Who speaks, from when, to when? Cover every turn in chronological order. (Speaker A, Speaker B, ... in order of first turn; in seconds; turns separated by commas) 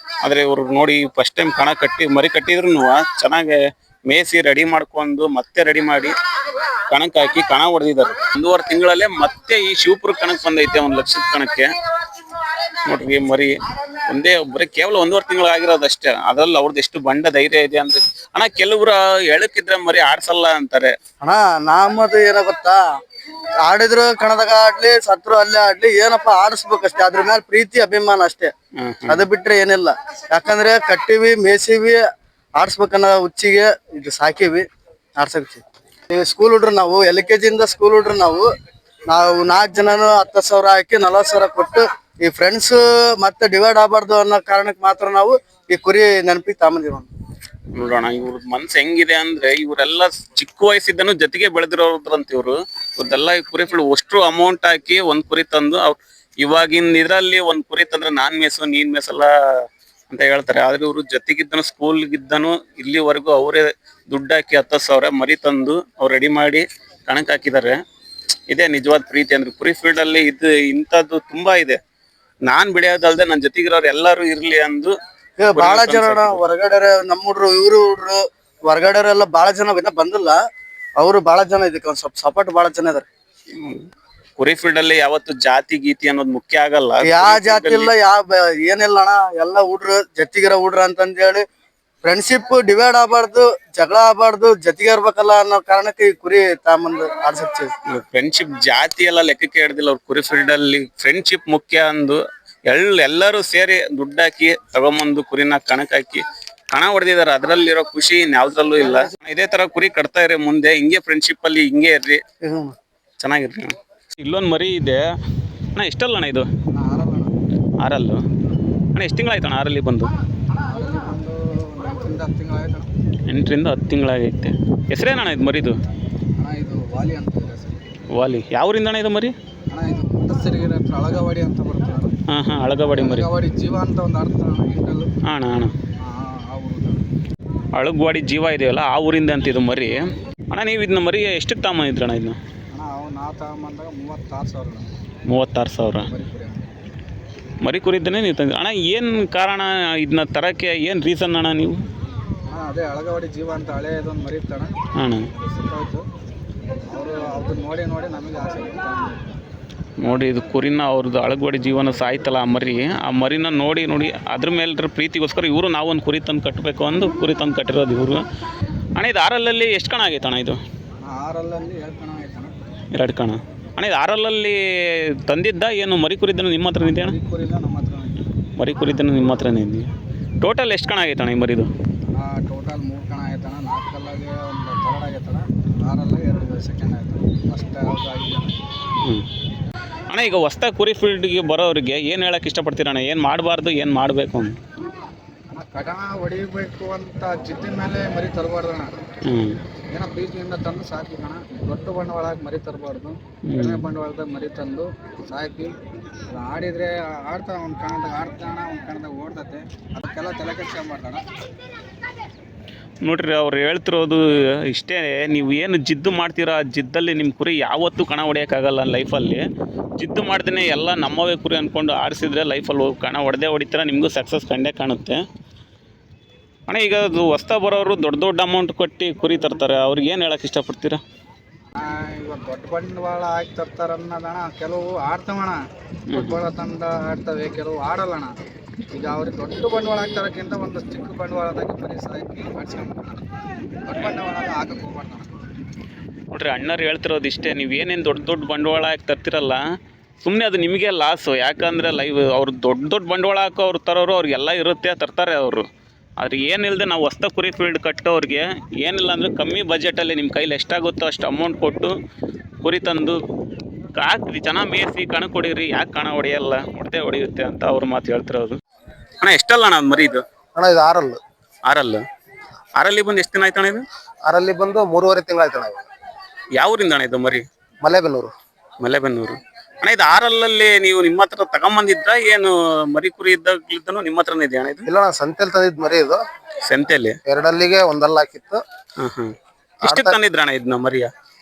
Speaker A: 0.2-6.1, Speaker A: 6.9-11.7, Speaker A: 12.8-13.5, Speaker A: 14.1-20.9, Speaker B: 21.2-22.8, Speaker B: 23.6-28.5, Speaker A: 28.8-29.2, Speaker B: 29.1-32.0, Speaker B: 32.5-34.6, Speaker B: 35.2-38.5, Speaker B: 39.1-47.1, Speaker A: 47.7-67.8, Speaker A: 68.5-71.8, Speaker A: 72.5-74.9, Speaker B: 75.4-80.4, Speaker A: 75.5-76.4, Speaker B: 81.0-83.1, Speaker A: 83.5-83.8, Speaker A: 84.4-87.9, Speaker B: 87.0-91.4, Speaker B: 92.0-97.7, Speaker A: 97.9-112.2, Speaker B: 112.4-112.8, Speaker A: 113.2-115.0, Speaker A: 115.7-116.5, Speaker C: 116.7-117.3, Speaker A: 117.8-118.2, Speaker A: 118.9-120.1, Speaker C: 120.7-122.9, Speaker A: 123.3-125.8, Speaker C: 126.4-127.8, Speaker A: 128.2-129.3, Speaker C: 129.7-132.1, Speaker A: 132.3-133.3, Speaker C: 132.9-135.1, Speaker A: 135.3-135.7, Speaker C: 136.0-137.0, Speaker A: 137.7-142.4, Speaker C: 142.7-144.9, Speaker A: 145.3-146.1, Speaker C: 146.1-146.7, Speaker A: 147.6-151.8, Speaker C: 152.5-154.8, Speaker A: 155.0-155.3, Speaker C: 155.4-156.1, Speaker C: 156.9-159.2, Speaker A: 160.0-168.2, Speaker A: 168.9-170.6, Speaker C: 171.0-172.5, Speaker A: 172.9-174.6, Speaker A: 175.2-177.2, Speaker C: 176.8-178.2, Speaker A: 178.6-179.9, Speaker A: 180.4-181.7, Speaker C: 182.1-188.5, Speaker A: 190.1-194.5, Speaker C: 195.5-198.9, Speaker A: 199.3-199.6, Speaker C: 199.9-205.8, Speaker A: 203.5-203.9, Speaker C: 206.3-211.2, Speaker A: 213.0-219.4, Speaker A: 220.0-225.2, Speaker A: 226.7-231.0, Speaker C: 231.8-238.3, Speaker A: 236.1-236.4, Speaker C: 238.9-243.2, Speaker C: 243.8-245.3, Speaker A: 246.3-249.6, Speaker A: 250.2-255.6, Speaker A: 256.2-261.9, Speaker A: 262.6-263.2, Speaker A: 264.0-268.6, Speaker A: 269.2-270.2, Speaker D: 270.5-271.2, Speaker A: 271.6-272.0, Speaker A: 272.8-273.8, Speaker D: 274.2-275.8, Speaker A: 276.6-277.4, Speaker D: 277.8-278.3, Speaker A: 278.8-284.8, Speaker D: 284.9-286.2, Speaker A: 286.6-287.2, Speaker D: 287.2-288.6, Speaker A: 289.0-291.1, Speaker D: 289.8-290.1